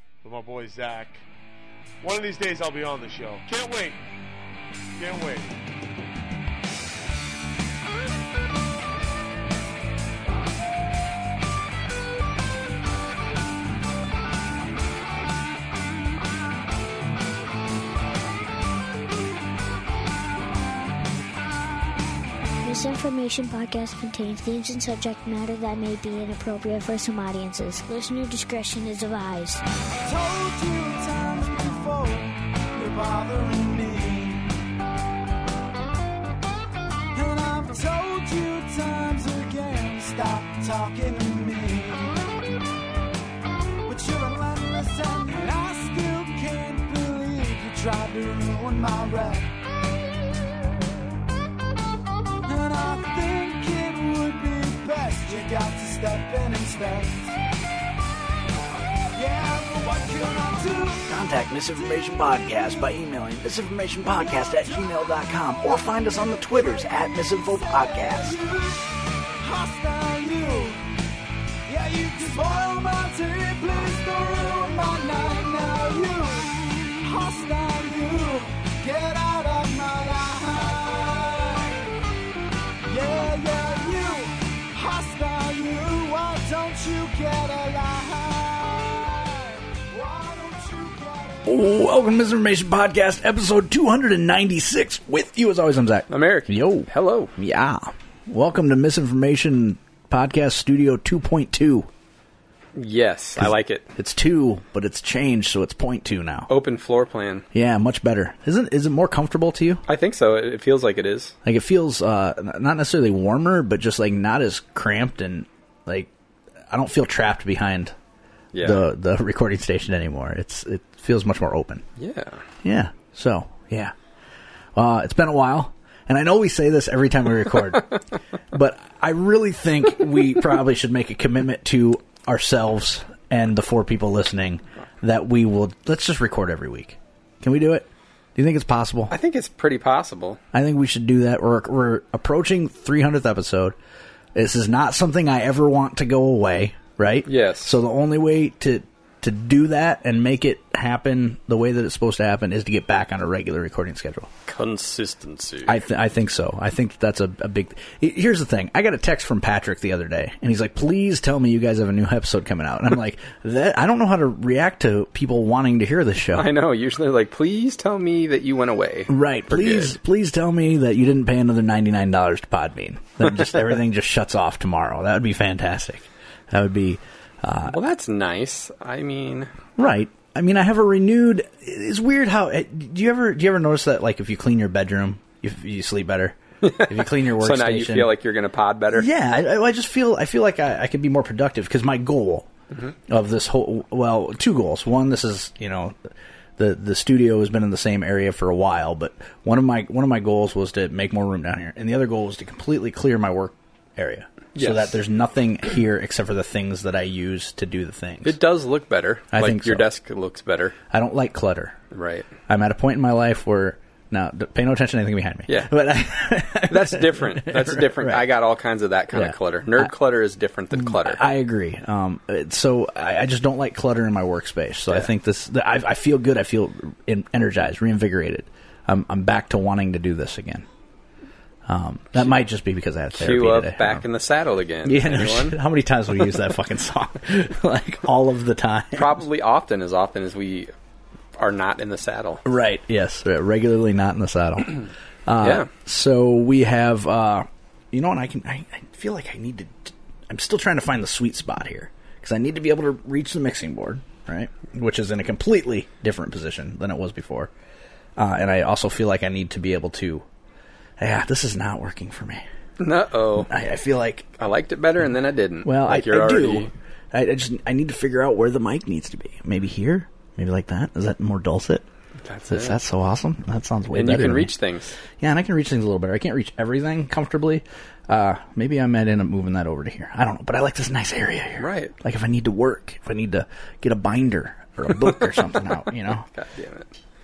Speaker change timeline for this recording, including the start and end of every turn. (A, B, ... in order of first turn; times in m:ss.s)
0:00.2-0:01.2 A
0:02.0-0:04.0 A
0:05.0-0:05.6 A
0:22.6-0:29.6 B
0:30.0-0:34.7 C
0:37.1-0:42.1 C
0:43.9-0:49.5 C
0:52.4-0:57.4 C
0:59.1-1:01.1 C
1:01.1-1:08.4 D
1:04.4-1:05.0 C
1:07.2-1:10.8 C
1:11.7-1:21.9 C
1:22.8-1:31.6 C
1:31.4-1:41.9 D
1:36.1-1:37.3 E
1:42.8-1:43.9 E
1:43.4-1:46.5 D
1:46.5-1:47.4 E
1:47.5-1:49.8 D
1:49.9-1:51.3 E
1:51.4-1:56.1 D
1:56.7-1:57.9 D
1:58.5-1:58.8 E
1:58.6-2:01.8 D
2:02.0-2:02.4 E
2:02.6-2:03.9 D
2:04.7-2:08.0 D
2:08.5-2:19.1 D
2:19.1-2:20.4 E
2:20.5-2:23.8 D
2:24.3-2:34.3 D
2:27.2-2:27.8 E
2:34.5-2:35.7 E
2:35.7-2:46.5 D
2:46.3-2:50.0 E
2:49.1-2:57.8 D
2:57.7-2:59.5 E
2:59.8-3:08.1 D
3:06.6-3:09.1 E
3:08.9-3:12.5 D
3:13.1-3:16.0 D
3:16.6-3:28.4 D
3:24.6-3:25.0 E
3:28.2-3:30.8 E
3:29.3-3:29.9 D
3:30.9-3:31.8 D
3:31.9-3:32.3 E
3:32.5-3:38.2 D
3:36.7-3:41.3 E
3:39.1-3:39.9 D
3:40.7-3:50.7 D
3:51.7-3:54.0 D
3:53.2-3:55.6 E
3:54.8-3:59.2 D
3:59.0-4:00.7 E
4:01.4-4:02.4 E
4:02.4-4:17.5 D
4:05.4-4:05.7 E
4:18.2-4:20.2 D
4:21.0-4:22.4 D
4:22.8-4:23.5 E
4:23.5-4:24.3 D
4:24.4-4:26.7 E
4:25.6-4:31.8 D
4:32.2-4:32.8 E
4:32.5-4:34.5 D
4:33.9-4:34.9 E
4:35.2-4:46.2 D
4:41.6-4:41.9 E
4:46.3-4:46.9 E